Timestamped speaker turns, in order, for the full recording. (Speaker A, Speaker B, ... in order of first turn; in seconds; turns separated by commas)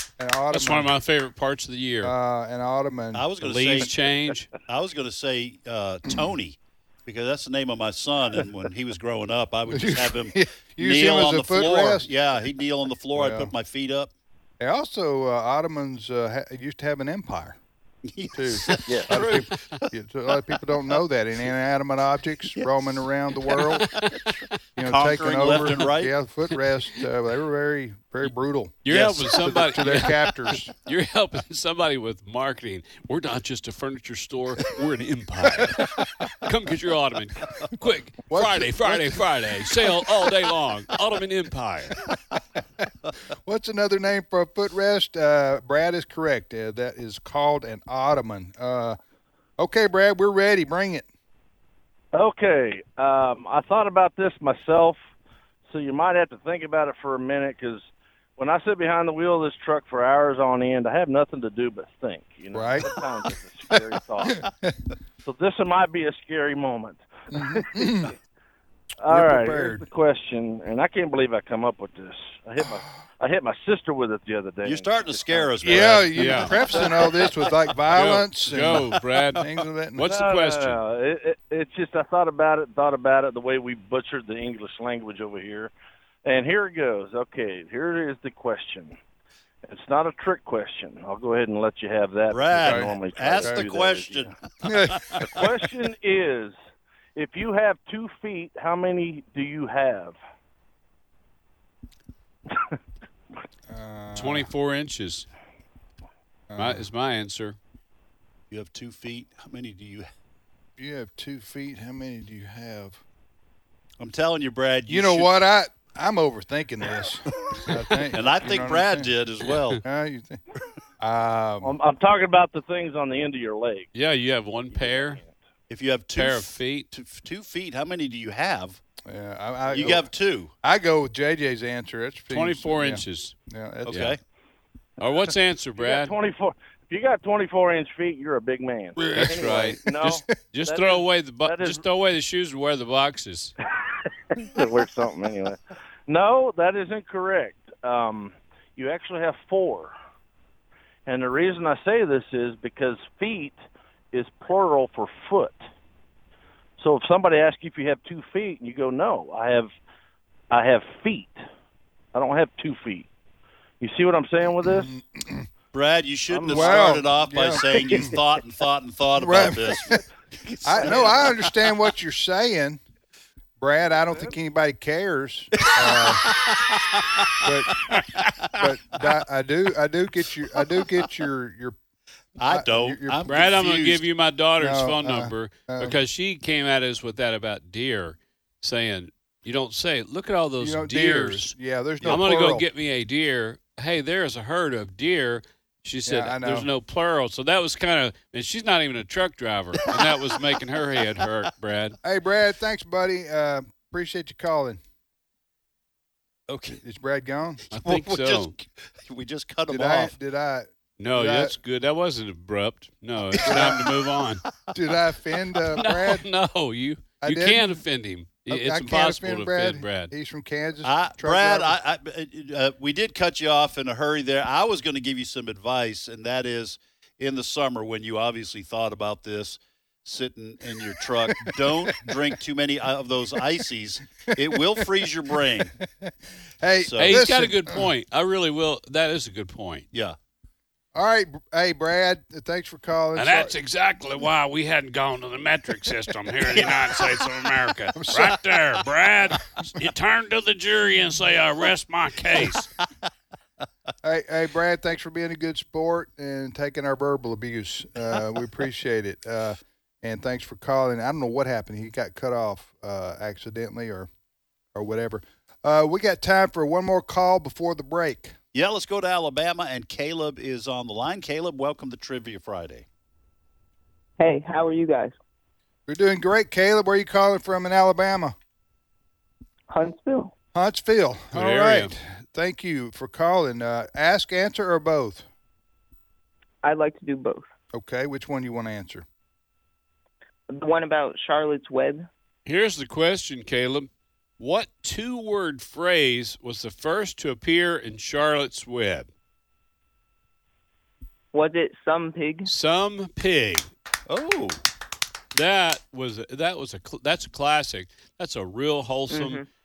Speaker A: 0.2-0.9, Speaker B: 0.5-2.1, Speaker A: 2.0-3.3, Speaker C: 3.1-3.9, Speaker B: 3.4-4.5, Speaker C: 4.7-14.1, Speaker A: 9.7-12.1, Speaker A: 13.1-13.5, Speaker A: 14.6-17.6, Speaker C: 18.1-19.9, Speaker A: 18.3-23.9, Speaker B: 23.8-24.2, Speaker A: 24.8-30.7, Speaker C: 24.9-26.1, Speaker B: 28.9-42.0, Speaker A: 38.3-39.3, Speaker A: 43.4-49.0, Speaker A: 49.6-51.1, Speaker D: 52.1-55.0, Speaker D: 55.7-64.5, Speaker A: 62.5-62.9, Speaker A: 64.3-64.8, Speaker D: 65.2-68.1, Speaker A: 67.3-68.1, Speaker D: 69.0-75.9, Speaker A: 69.1-69.8, Speaker C: 74.6-77.3, Speaker A: 75.6-80.0, Speaker B: 76.1-76.6, Speaker D: 76.7-77.2, Speaker B: 77.9-79.4, Speaker B: 80.0-80.8, Speaker D: 80.0-85.7, Speaker D: 86.2-89.0, Speaker D: 89.7-94.3, Speaker C: 92.3-95.4, Speaker A: 92.6-93.6, Speaker A: 94.6-95.4, Speaker D: 95.2-96.6, Speaker D: 97.2-100.2, Speaker A: 103.7-104.5, Speaker B: 104.2-105.3, Speaker A: 106.5-106.9, Speaker B: 106.6-107.6, Speaker C: 108.5-110.1, Speaker A: 110.8-113.0, Speaker C: 114.0-115.3, Speaker A: 114.9-119.1, Speaker C: 118.1-119.8, Speaker B: 119.4-119.8, Speaker A: 119.8-120.4, Speaker A: 121.0-121.8, Speaker D: 121.6-123.9, Speaker B: 123.9-125.2, Speaker D: 124.7-125.3, Speaker C: 125.7-128.8, Speaker B: 126.2-126.9, Speaker A: 129.1-130.1, Speaker C: 129.7-130.5, Speaker A: 130.6-134.1, Speaker B: 132.3-133.3, Speaker B: 133.9-134.2, Speaker C: 133.9-134.2, Speaker B: 135.0-136.1, Speaker D: 135.8-141.8, Speaker A: 139.0-140.1, Speaker B: 139.1-143.5, Speaker D: 144.3-149.9, Speaker D: 151.1-153.6, Speaker D: 154.1-155.6, Speaker D: 156.8-159.7, Speaker D: 160.5-161.4, Speaker D: 162.1-163.1, Speaker D: 163.8-164.9, Speaker A: 164.6-165.5, Speaker C: 165.7-169.9, Speaker D: 166.3-167.0, Speaker A: 166.5-168.2, Speaker D: 167.8-168.1, Speaker A: 169.2-170.0, Speaker C: 170.5-171.4, Speaker A: 170.7-172.8, Speaker D: 170.8-171.2, Speaker A: 173.6-176.4, Speaker C: 175.6-177.4, Speaker A: 177.4-177.8, Speaker A: 178.5-181.8, Speaker C: 182.4-184.1, Speaker A: 182.4-183.3, Speaker B: 183.3-191.5, Speaker A: 184.6-186.0, Speaker A: 190.6-192.7, Speaker B: 192.1-202.0, Speaker A: 196.1-196.7, Speaker A: 202.0-204.8, Speaker C: 206.5-206.8, Speaker A: 206.7-207.6, Speaker C: 207.7-210.1, Speaker B: 207.7-208.5, Speaker A: 209.7-211.6, Speaker B: 211.0-214.4, Speaker A: 213.4-213.9, Speaker C: 213.4-213.9, Speaker A: 214.7-216.3, Speaker B: 215.7-220.1, Speaker A: 217.2-217.8, Speaker A: 218.5-221.8, Speaker C: 220.8-235.8, Speaker A: 231.3-232.2, Speaker A: 234.3-234.9, Speaker A: 235.8-237.9, Speaker C: 236.8-237.2, Speaker B: 237.0-239.9, Speaker A: 240.9-243.6, Speaker B: 243.2-252.7, Speaker A: 247.9-248.4, Speaker A: 254.0-264.1, Speaker A: 264.7-268.4, Speaker C: 268.5-272.9, Speaker E: 274.2-275.2, Speaker A: 275.9-278.4, Speaker E: 279.7-280.3, Speaker A: 280.5-285.3, Speaker B: 281.3-281.9, Speaker E: 286.6-287.5, Speaker A: 287.7-289.1, Speaker E: 290.5-292.1, Speaker B: 292.5-293.9, Speaker B: 294.4-299.1, Speaker E: 301.3-302.5, Speaker B: 302.4-303.7, Speaker C: 304.1-304.6, Speaker B: 305.3-309.4, Speaker E: 309.1-309.5